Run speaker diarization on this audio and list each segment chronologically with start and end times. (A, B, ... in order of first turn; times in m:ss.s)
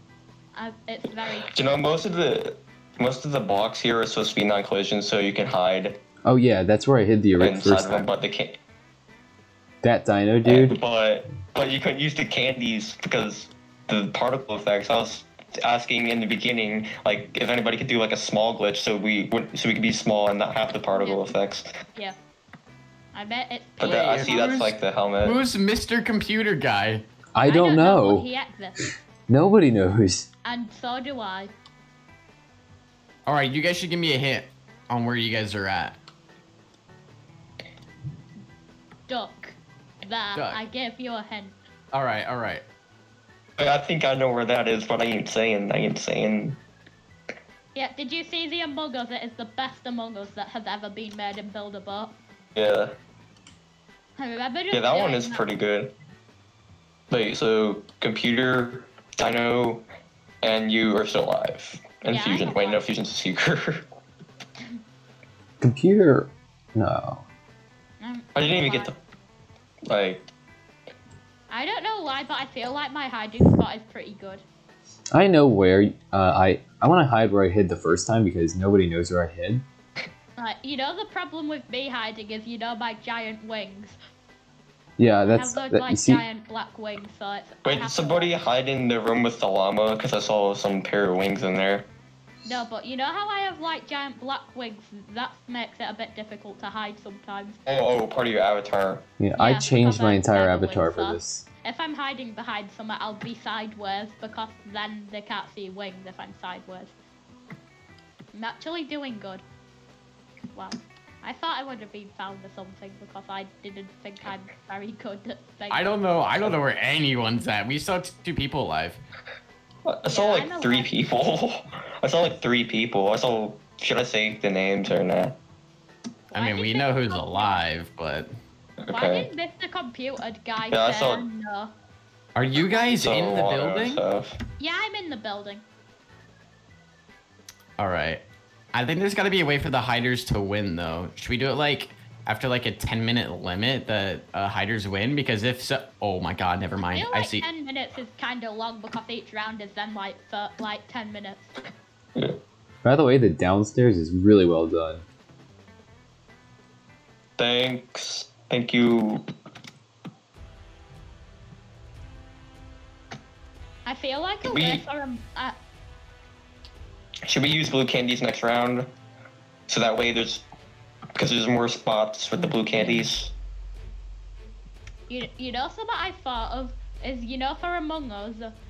0:00.5-0:01.5 A
0:01.5-0:06.0 B
0:06.2-0:08.1 C
0:07.4-0:08.6 B
0:09.8-0:10.8 C
0:10.4-0:21.7 B
0:21.0-0:21.3 A
0:23.1-0:24.7 A
0:23.8-0:25.4 B
0:23.8-0:24.7 D
0:25.2-0:27.0 D
0:27.4-0:28.3 C
0:27.4-0:28.8 A
0:29.3-0:30.3 C
0:30.4-0:31.5 A
0:33.2-0:36.0 D
0:39.1-0:41.5 A
0:40.3-0:40.6 D
0:41.9-0:42.6 D
0:43.6-0:46.6 B
0:47.8-0:52.1 A
0:52.5-0:52.9 B
0:54.2-0:55.4 A
0:54.7-0:55.9 B
0:57.1-0:59.8 B
1:00.4-1:03.8 B
1:02.1-1:02.8 A
1:05.6-1:07.2 C
1:08.0-1:08.9 A
1:08.4-1:09.0 B
1:09.9-1:10.3 B
1:11.5-1:14.4 A
1:15.1-1:19.6 C
1:20.4-1:24.0 A
1:25.0-1:26.2 C
1:25.2-1:28.4 A
1:27.6-1:31.9 B
1:32.4-1:37.6 A
1:37.6-1:39.0 B
1:39.2-1:41.4 C
1:39.4-1:46.9 A
1:48.3-1:49.4 A
1:50.5-1:56.0 A
1:55.7-1:59.0 D
1:59.9-2:05.4 B
2:00.1-2:00.9 A
2:06.3-2:07.6 A
2:06.3-2:08.3 D
2:08.8-2:09.3 B
2:08.9-2:11.7 A
2:10.7-2:11.2 B
2:12.4-2:14.0 D
2:12.8-2:14.4 B
2:14.6-2:15.6 A
2:17.8-2:27.4 D
2:26.8-2:31.5 A
2:32.8-2:35.0 C
2:37.4-2:39.2 B
2:43.8-2:45.5 A
2:44.4-2:44.8 B
2:47.3-2:48.9 B
2:49.7-2:50.4 B
2:51.2-2:53.3 B
2:55.1-2:58.5 A